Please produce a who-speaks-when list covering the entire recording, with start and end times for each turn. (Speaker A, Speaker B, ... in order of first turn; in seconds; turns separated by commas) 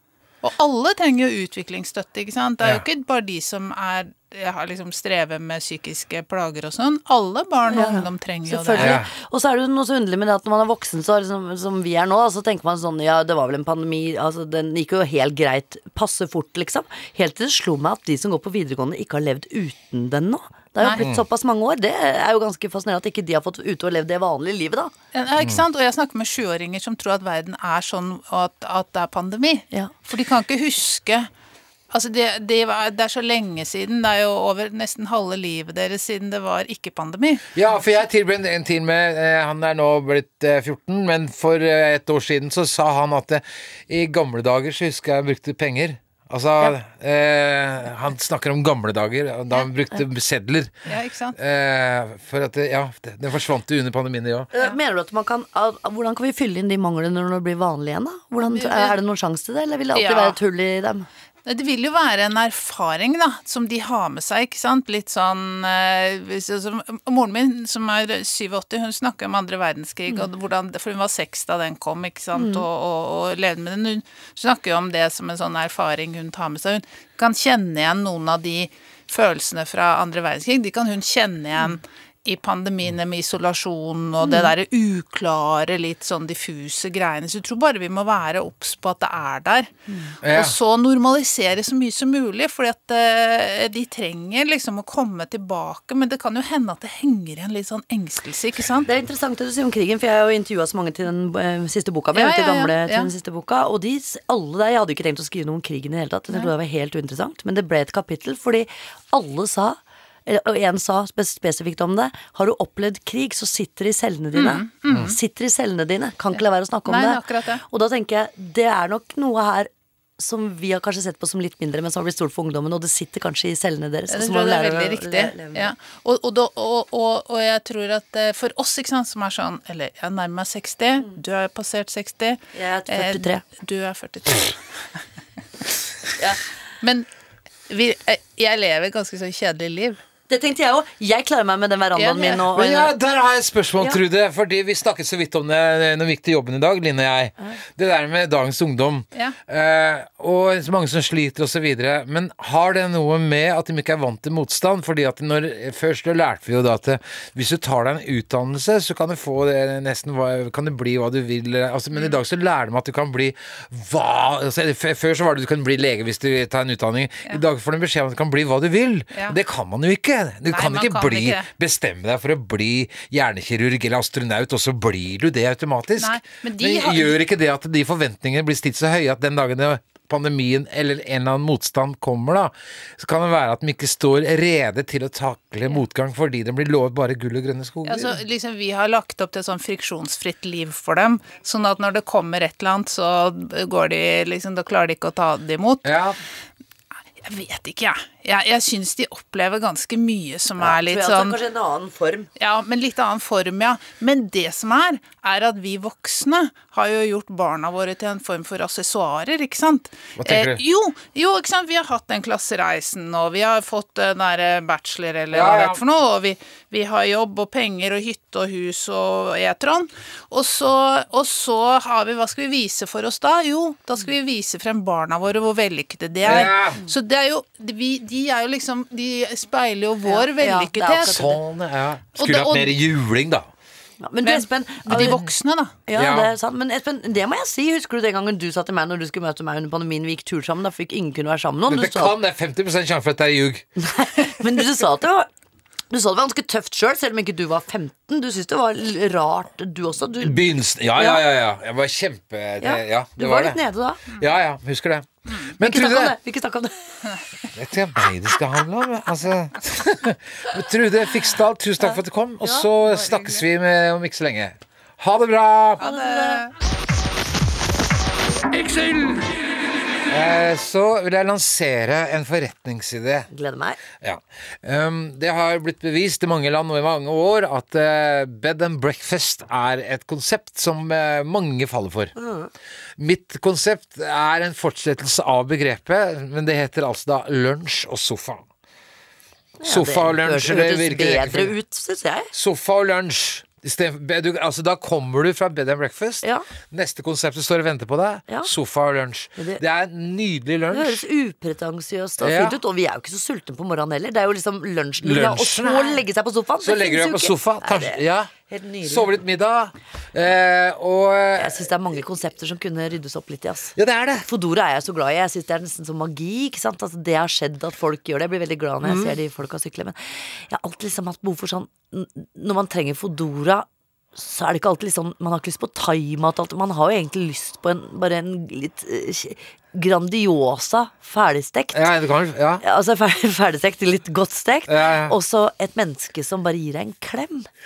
Speaker A: 0.4-9.0, Speaker B: 7.7-24.9, Speaker C: 8.8-9.1, Speaker A: 20.8-21.0, Speaker C: 21.0-21.2, Speaker A: 25.1-31.3, Speaker A: 31.9-37.4, Speaker C: 37.5-54.5, Speaker A: 50.9-51.4, Speaker B: 54.5-61.1, Speaker A: 58.4-59.0, Speaker A: 59.9-60.4, Speaker A: 61.5-89.7, Speaker B: 72.3-72.6, Speaker B: 84.2-84.5, Speaker C: 90.2-90.5, Speaker A: 90.3-98.9, Speaker B: 98.8-125.7, Speaker A: 102.1-103.1, Speaker A: 114.3-115.1, Speaker C: 114.9-115.1, Speaker A: 116.3-117.6, Speaker A: 124.1-134.6, Speaker B: 132.5-133.4, Speaker A: 136.8-137.1, Speaker A: 137.7-140.0, Speaker B: 140.3-142.9, Speaker A: 141.9-142.5, Speaker C: 142.5-188.2, Speaker A: 170.5-171.5, Speaker A: 176.0-177.2, Speaker A: 187.8-195.9, Speaker C: 195.8-196.2, Speaker A: 197.2-201.4, Speaker B: 200.6-202.3, Speaker A: 202.4-231.3, Speaker C: 210.2-210.6, Speaker C: 215.3-215.8, Speaker C: 226.2-226.8, Speaker B: 230.0-231.4, Speaker C: 231.0-233.5, Speaker A: 232.2-232.7, Speaker B: 234.0-235.2, Speaker A: 234.2-235.8, Speaker C: 234.9-235.2, Speaker B: 235.8-242.1, Speaker C: 235.9-236.3, Speaker C: 241.7-243.7, Speaker B: 243.8-245.3, Speaker B: 245.9-250.4, Speaker C: 250.2-253.6, Speaker B: 250.9-251.2, Speaker B: 252.6-254.0, Speaker C: 254.1-256.1, Speaker B: 255.6-256.8, Speaker C: 257.5-265.8, Speaker B: 261.8-262.7, Speaker A: 265.8-266.5, Speaker B: 265.8-266.4, Speaker C: 270.1-273.3, Speaker B: 273.3-273.8, Speaker C: 274.0-282.1, Speaker B: 282.1-282.5, Speaker C: 283.0-288.4, Speaker B: 289.6-292.3, Speaker C: 289.6-291.5, Speaker C: 292.3-301.0, Speaker B: 299.4-299.6, Speaker B: 300.7-309.1, Speaker C: 302.2-302.6, Speaker C: 305.0-306.0, Speaker C: 306.6-308.3, Speaker C: 308.8-311.7, Speaker B: 311.4-331.9, Speaker C: 313.8-314.3, Speaker C: 318.8-319.2, Speaker C: 331.7-332.6, Speaker B: 332.6-337.5, Speaker C: 334.7-335.1